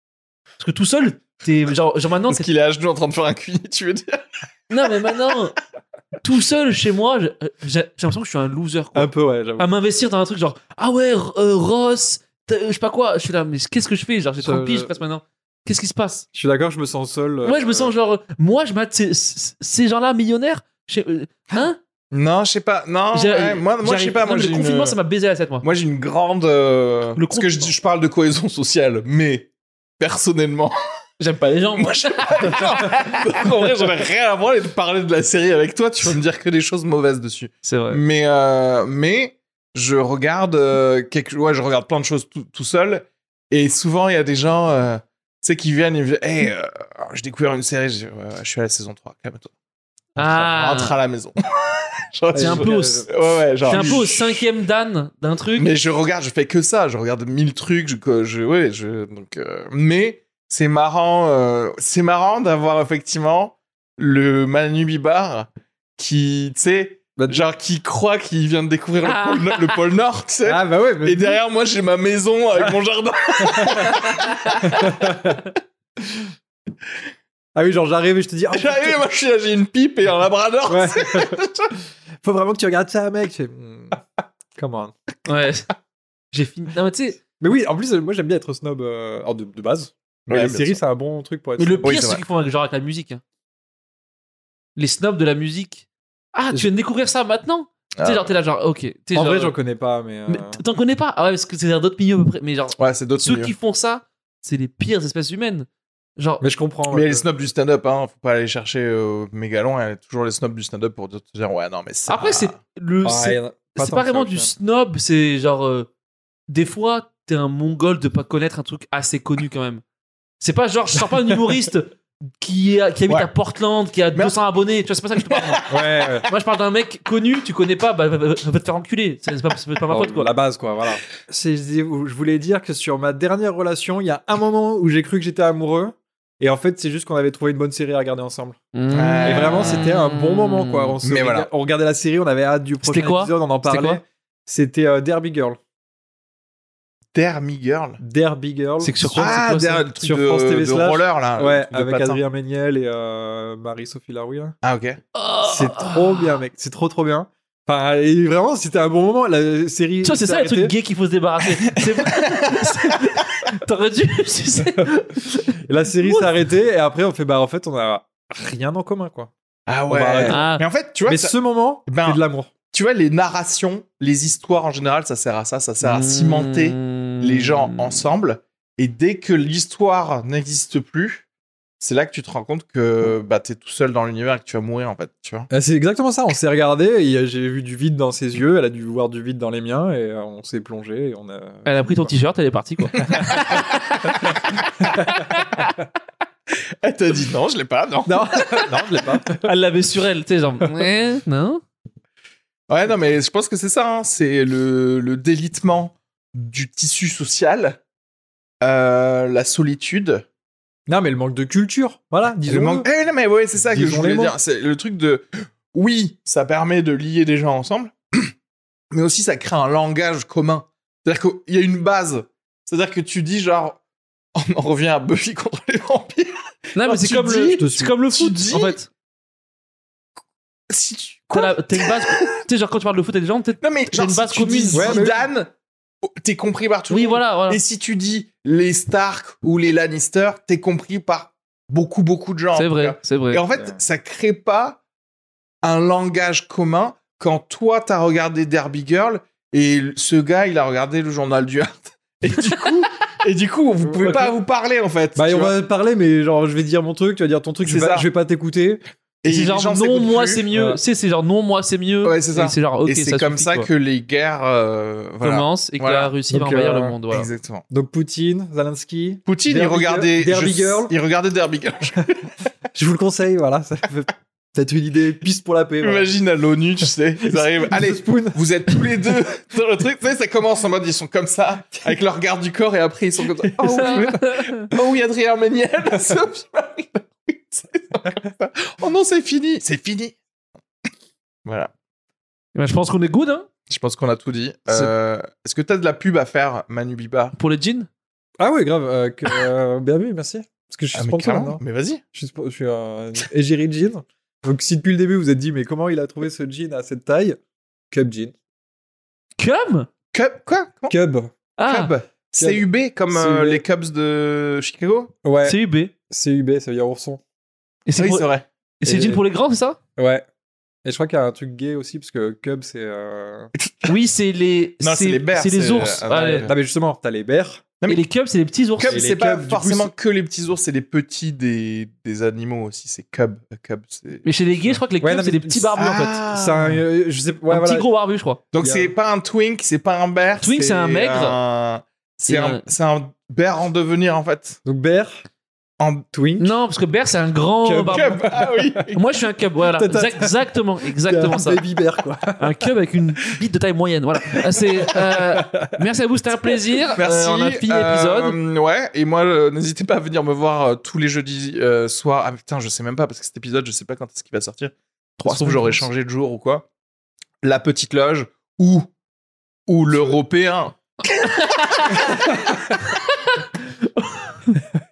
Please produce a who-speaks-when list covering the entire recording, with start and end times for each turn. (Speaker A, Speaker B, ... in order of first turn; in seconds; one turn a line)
Speaker A: 0.6-2.5
Speaker B: 2.3-4.2
Speaker A: 4.7-5.5
Speaker A: 6.2-16.2
Speaker C: 8.9-9.7
Speaker C: 14.4-14.9
Speaker C: 16.3-17.9
Speaker A: 17.4-21.8
Speaker B: 22.1-25.0
Speaker A: 23.1-25.6
Speaker B: 25.6-30.7
Speaker A: 27.1-27.7
Speaker A: 31.2-33.8
Speaker B: 31.8-49.5
Speaker A: 37.6-38.0
Speaker A: 50.2-50.9
Speaker B: 50.2-51.3
Speaker B: 52.1-54.4
Speaker C: 52.3-54.0
Speaker A: 52.4-53.1
Speaker A: 53.6-55.7
Speaker B: 55.5-75.1
Speaker C: 67.2-67.4
Speaker A: 69.0-69.8
Speaker C: 70.5-71.4
Speaker C: 73.5-73.9
Speaker C: 74.7-75.4
Speaker C: 77.5-79.0
Speaker B: 78.5-81.7
Speaker C: 80.7-81.4
Speaker C: 82.2-84.0
Speaker C: 84.5-84.9
Speaker A: 85.2-85.7
Speaker A: 86.3-87.2
Speaker C: 87.4-92.0
Speaker B: 90.3-90.8
Speaker A: 91.6-93.2
Speaker B: 91.8-92.2
Speaker A: 94.8-99.5
Speaker B: 98.0-98.3
Speaker C: 99.1-100.6
Speaker A: 100.3-106.4
Speaker B: 102.8-103.5
Speaker C: 106.4-107.2
Speaker B: 106.9-112.6
Speaker A: 112.1-115.9
Speaker C: 113.0-114.5
Speaker A: 116.5-119.8
Speaker A: 120.4-125.6
Speaker B: 125.3-125.6
Speaker C: 125.7-126.3
Speaker A: 126.3-130.3
Speaker C: 129.9-138.6
Speaker A: 138.7-140.9
Speaker B: 138.9-139.8
Speaker C: 139.2-145.6
Speaker B: 141.0-141.5
Speaker A: 142.8-144.0
Speaker B: 147.1-148.0
Speaker C: 148.0-149.4
Speaker A: 148.8-149.8
Speaker B: 149.1-152.2
Speaker C: 149.9-154.6
Speaker B: 154.6-155.0
Speaker A: 155.1-156.4
Speaker C: 155.4-160.7
Speaker A: 160.0-165.5
Speaker B: 161.7-163.2
Speaker C: 165.5-169.3
Speaker B: 169.7-171.3
Speaker C: 169.9-170.4
Speaker A: 170.2-170.6
Speaker C: 171.0-172.5
Speaker B: 171.8-181.2
Speaker A: 175.8-178.0
Speaker B: 181.8-185.5
Speaker C: 185.5-192.1
Speaker A: 191.7-195.8
Speaker C: 193.0-193.6
Speaker B: 193.0-193.6
Speaker B: 194.2-194.6
Speaker C: 194.3-195.2
Speaker B: 196.8-198.6
Speaker C: 198.0-199.4
Speaker A: 199.4-201.6
Speaker C: 200.6-200.9
Speaker B: 202.7-207.8
Speaker B: 208.6-210.2
Speaker C: 210.9-212.9
Speaker B: 212.4-218.3
Speaker C: 213.6-214.3
Speaker B: 218.9-223.8
Speaker B: 224.3-228.8
Speaker A: 226.8-228.9
Speaker C: 227.6-227.9
Speaker B: 230.7-232.4
Speaker A: 231.3-235.3
Speaker B: 233.6-235.5
Speaker C: 234.7-235.2
Speaker B: 236.2-244.8
Speaker A: 236.9-237.6
Speaker A: 242.5-243.4
Speaker B: 245.6-255.5
Speaker A: 252.4-252.8
Speaker C: 253.8-254.3
Speaker C: 255.1-258.8
Speaker B: 257.6-258.1
Speaker B: 259.2-260.4
Speaker A: 259.2-263.7
Speaker C: 260.5-260.8
Speaker B: 262.0-266.1
Speaker A: 265.2-267.3
Speaker C: 266.3-267.0
Speaker B: 267.1-267.6
Speaker C: 267.7-270.9
Speaker B: 269.2-272.3
Speaker C: 272.7-276.1
Speaker B: 275.8-290.1
Speaker C: 277.2-279.1
Speaker C: 283.6-284.1
Speaker A: 283.6-284.7
Speaker B: 291.4-291.7
Speaker A: 292.5-293.5
Speaker B: 293.7-297.3
Speaker A: 297.4-297.9
Speaker C: 298.4-301.6
Speaker B: 300.9-302.0
Speaker C: 302.1-307.4
Speaker C: 307.9-308.3
Speaker A: 309.4-309.9
Speaker B: 310.1-310.9
Speaker C: 310.9-311.3
Speaker A: 311.6-311.9
Speaker B: 311.7-315.1
Speaker C: 312.1-313.6
Speaker C: 315.2-315.6
Speaker A: 315.4-315.9
Speaker C: 316.1-317.2
Speaker A: 317.9-318.3
Speaker B: 318.0-318.4
Speaker A: 318.8-319.8
Speaker C: 318.8-319.2
Speaker C: 320.0-320.2
Speaker C: 320.8-323.5
Speaker B: 323.5-323.9
Speaker A: 323.9-326.5
Speaker B: 324.8-326.5
Speaker C: 326.4-327.6
Speaker A: 327.9-329.1
Speaker B: 328.8-334.8
Speaker C: 328.9-329.9
Speaker A: 334.2-336.2
Speaker C: 335.0-335.7
Speaker B: 335.8-336.8
Speaker C: 336.3-337.9
Speaker A: 337.5-338.4
Speaker B: 338.5-344.6
Speaker C: 338.6-338.9
Speaker A: 340.4-341.4
Speaker A: 342.3-342.6
Speaker C: 344.6-345.2
Speaker B: 345.8-346.1
Speaker C: 346.1-346.5
Speaker A: 346.4-348.2
Speaker C: 347.6-348.9
Speaker B: 347.9-349.1
Speaker A: 348.9-351.6
Speaker C: 349.7-352.7
Speaker A: 352.4-358.4
Speaker C: 354.3-355.8
Speaker B: 357.0-366.6
Speaker C: 365.3-365.8
Speaker B: 367.4-368.9
Speaker B: 369.7-370.8
Speaker A: 371.0-374.6
Speaker B: 371.8-372.2
Speaker C: 372.1-372.8